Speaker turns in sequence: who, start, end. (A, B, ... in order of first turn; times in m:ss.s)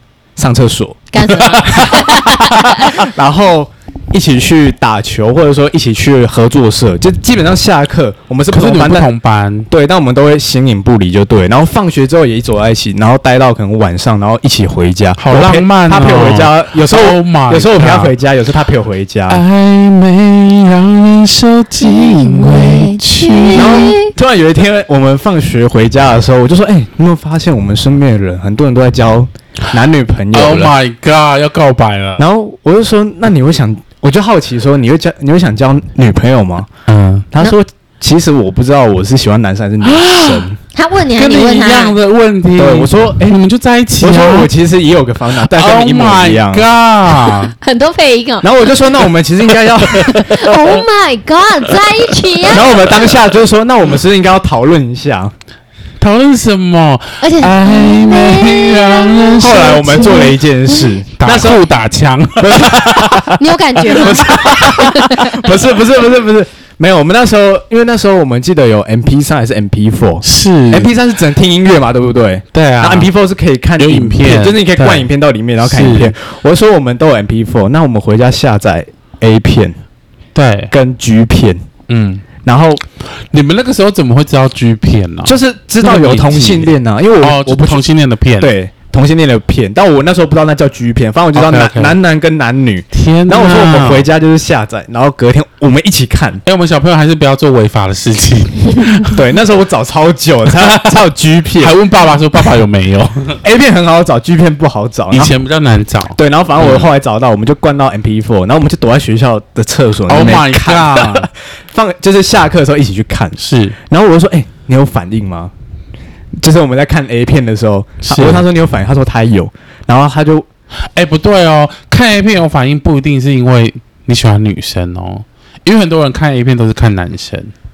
0:00.4-0:01.1 A
0:01.1-0:03.0 B
0:01.4-0:02.5 C
0:01.6-0:02.0 A
0:02.8-0:09.1 A
0:08.5-0:09.7 C
0:09.7-0:19.4 A
0:15.2-0:18.1 C
0:19.3-0:23.9 C
0:21.8-0:24.1 B
0:23.5-0:30.7 A
0:30.3-0:32.2 C
0:32.2-0:36.7 A
0:36.9-0:37.3 C
0:37.3-0:40.6 A
0:39.8-0:40.5 C
0:40.7-0:42.0 B
0:41.1-0:44.5 C
0:42.6-0:43.4 A
0:44.0-0:47.4 A
0:45.4-0:47.5 C
0:47.6-0:49.0 B
0:48.4-0:50.3 A
0:49.8-0:52.8 B
0:49.9-0:50.8 C
0:52.5-0:55.3 A
0:52.6-0:53.2 C
0:56.0-1:00.3 C
0:57.2-1:01.0 B
0:59.4-1:01.6 A
1:01.2-1:03.3 C
1:02.4-1:19.7 A
1:03.2-1:05.5 B
1:04.1-1:04.7 C
1:10.2-1:10.9 C
1:12.5-1:13.1 C
1:13.8-1:15.1 C
1:15.6-1:16.1 C
1:20.3-1:20.7 C
1:20.7-1:21.6 A
1:21.9-1:22.2 C
1:22.4-1:22.8 A
1:23.3-1:28.6 C
1:25.2-1:27.8 A
1:28.4-1:36.4 A
1:31.3-1:32.0 C
1:32.9-1:34.1 C
1:36.4-1:39.3 C
1:39.0-1:41.7 A
1:40.5-1:41.0 C
1:41.6-1:43.4 C
1:43.4-1:45.4 A
1:45.1-1:46.9 C
1:46.2-1:55.5 A
1:50.1-1:51.3 C
1:53.4-1:53.8 C
1:56.4-2:00.5 A
1:58.0-1:58.4 C
2:00.9-2:07.5 C